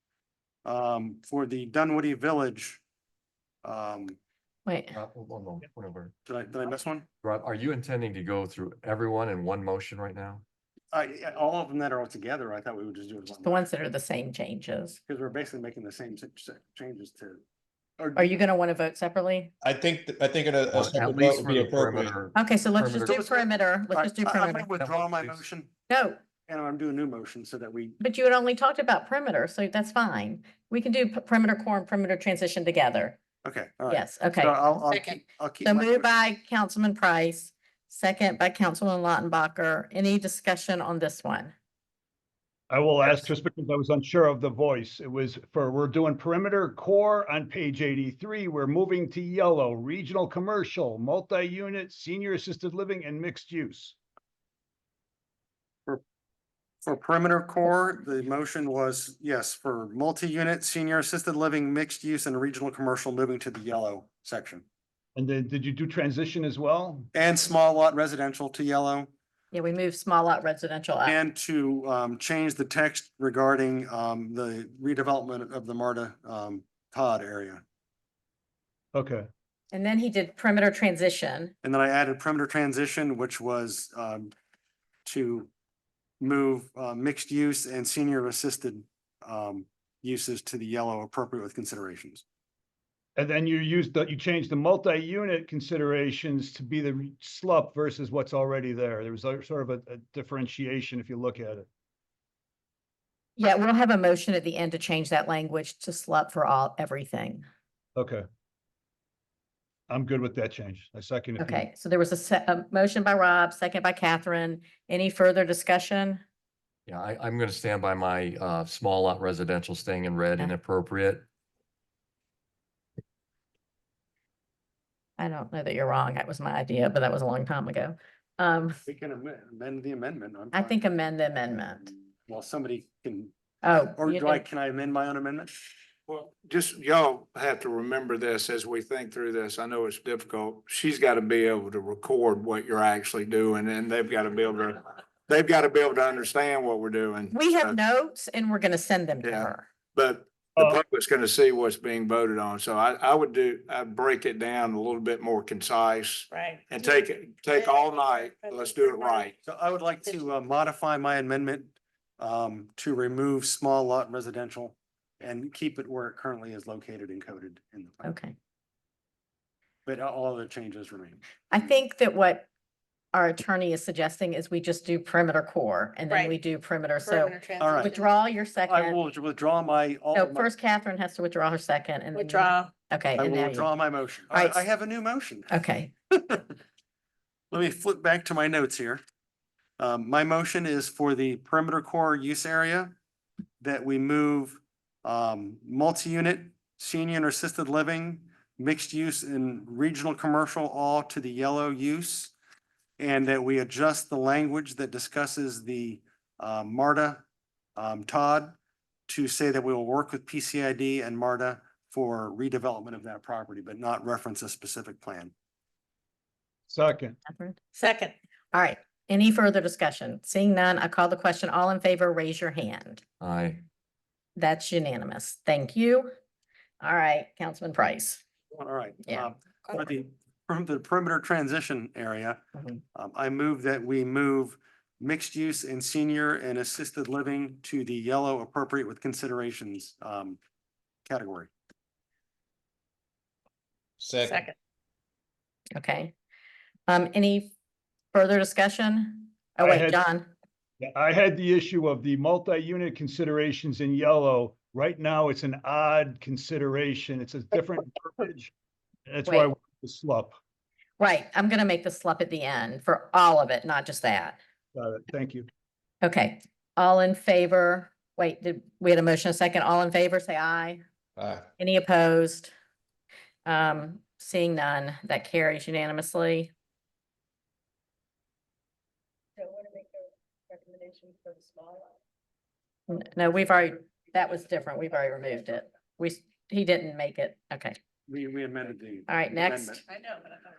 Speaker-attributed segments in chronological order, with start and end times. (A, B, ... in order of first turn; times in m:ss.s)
0:00.6-0:02.8 A
0:03.6-0:04.2 A
0:04.6-0:05.0 B
0:04.9-0:06.1 C
0:06.3-0:07.1 A
0:07.2-0:10.4 C
0:10.9-0:13.6 A
0:13.4-0:15.0 B
0:15.1-0:17.4 A
0:18.0-0:18.4 A
0:18.2-0:19.5 B
0:19.6-0:22.2 D
0:20.7-0:23.2 C
0:22.3-0:24.7 B
0:23.0-0:23.4 A
0:23.9-0:25.7 A
0:24.8-0:25.4 C
0:25.9-0:26.2 B
0:26.5-0:28.0 A
0:28.0-0:33.2 B
0:33.4-0:36.1 A
0:33.9-0:34.7 B
0:34.9-0:35.2 E
0:35.6-0:41.5 B
0:42.7-0:54.0 F
0:56.8-1:04.6 A
1:05.2-1:07.1 F
1:07.1-1:09.1 A
1:09.5-1:11.2 B
1:11.0-1:17.6 A
1:18.9-1:19.3 F
1:19.7-1:21.5 B
1:21.6-1:24.3 A
1:25.0-1:25.5 A
1:26.2-1:32.2 A
1:33.2-1:41.7 F
1:43.4-1:47.4 B
1:48.0-1:48.2 F
1:49.9-1:51.6 F
1:51.4-1:56.2 B
1:56.9-2:01.2 C
2:05.2-2:08.8 B
2:08.8-2:10.8 A
2:10.5-2:11.9 B
2:12.3-2:13.3 A
2:13.6-2:14.4 B
2:14.0-2:15.6 A
2:16.1-2:27.8 G
2:27.3-2:29.7 B
2:29.2-2:39.3 G
2:36.3-2:39.3 E
2:39.4-2:48.0 A
2:48.0-2:48.4 B
2:49.8-2:51.2 A
2:51.5-2:52.5 B
2:53.1-2:59.0 B
2:56.1-2:56.4 E
2:57.0-2:58.0 E
2:57.6-2:58.0 A
2:58.6-3:00.5 A
3:00.1-3:03.7 B
3:02.1-3:02.7 E
3:03.2-3:05.6 A
3:04.3-3:04.6 B
3:05.5-3:05.9 B
3:06.2-3:06.5 A
3:07.5-3:09.0 A
3:09.8-3:12.9 A
3:13.6-3:22.3 A
3:23.0-3:27.2 A
3:27.8-3:28.5 A
3:29.1-3:35.3 A
3:36.7-3:37.2 F
3:37.3-3:37.6 B
3:37.7-3:38.1 E
3:38.5-3:43.0 B
3:43.2-3:43.6 C
3:44.4-3:46.1 B
3:46.8-3:48.2 B
3:48.5-3:52.4 A
3:52.5-3:52.8 B
3:52.9-4:00.4 A
4:01.0-4:01.5 A
4:04.0-4:04.4 D
4:04.2-4:04.5 E
4:05.7-4:06.1 B
4:06.9-4:07.5 B
4:08.1-4:10.3 B
4:09.6-4:10.0 F
4:10.8-4:18.5 F
4:19.1-4:20.4 F
4:19.3-4:19.5 B
4:21.0-4:24.4 B
4:24.7-4:25.5 F
4:26.0-4:30.8 B
4:31.2-4:31.4 D
4:31.6-4:32.5 B
4:33.4-4:36.5 B
4:39.4-4:41.9 E
4:42.9-4:47.7 B
4:48.1-4:49.8 A
4:49.1-4:49.8 B